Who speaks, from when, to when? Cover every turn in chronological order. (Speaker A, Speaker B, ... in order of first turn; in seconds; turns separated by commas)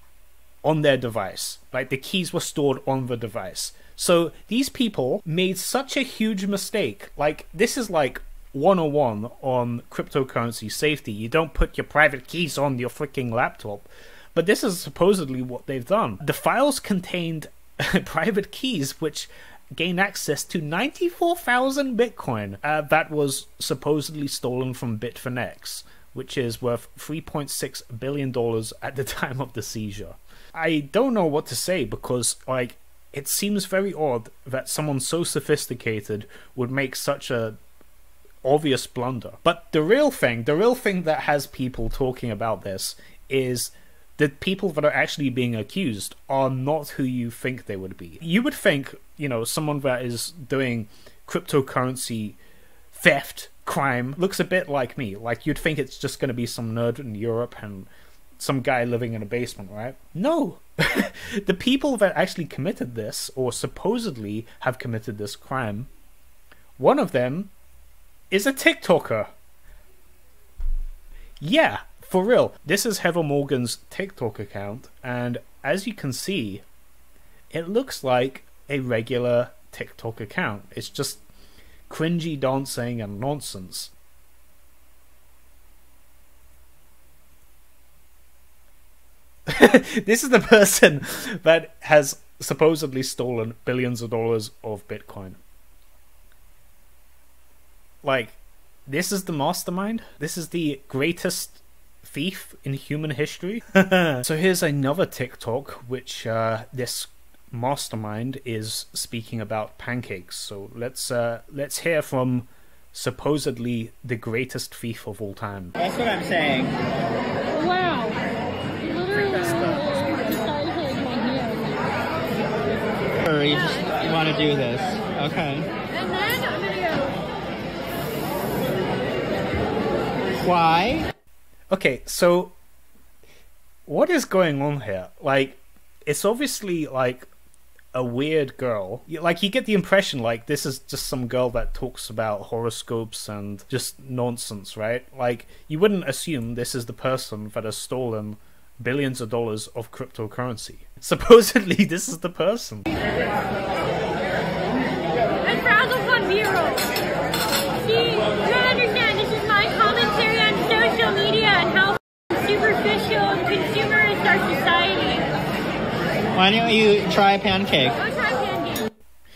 Speaker A: 0.6-37.6, Speaker A: 38.4-52.4, Speaker A: 52.9-65.9, Speaker A: 66.8-67.5, Speaker A: 68.3-69.3, Speaker A: 71.4-76.6, Speaker A: 77.5-81.2, Speaker A: 81.9-83.9, Speaker A: 89.5-95.4, Speaker A: 98.0-115.8, Speaker B: 115.8-116.7, Speaker C: 117.6-118.2, Speaker C: 118.8-121.6, Speaker B: 123.2-125.7, Speaker B: 130.4-131.1, Speaker A: 131.7-132.5, Speaker A: 133.8-137.3, Speaker A: 137.9-152.9, Speaker C: 155.4-156.9, Speaker C: 157.9-165.2, Speaker B: 166.3-168.1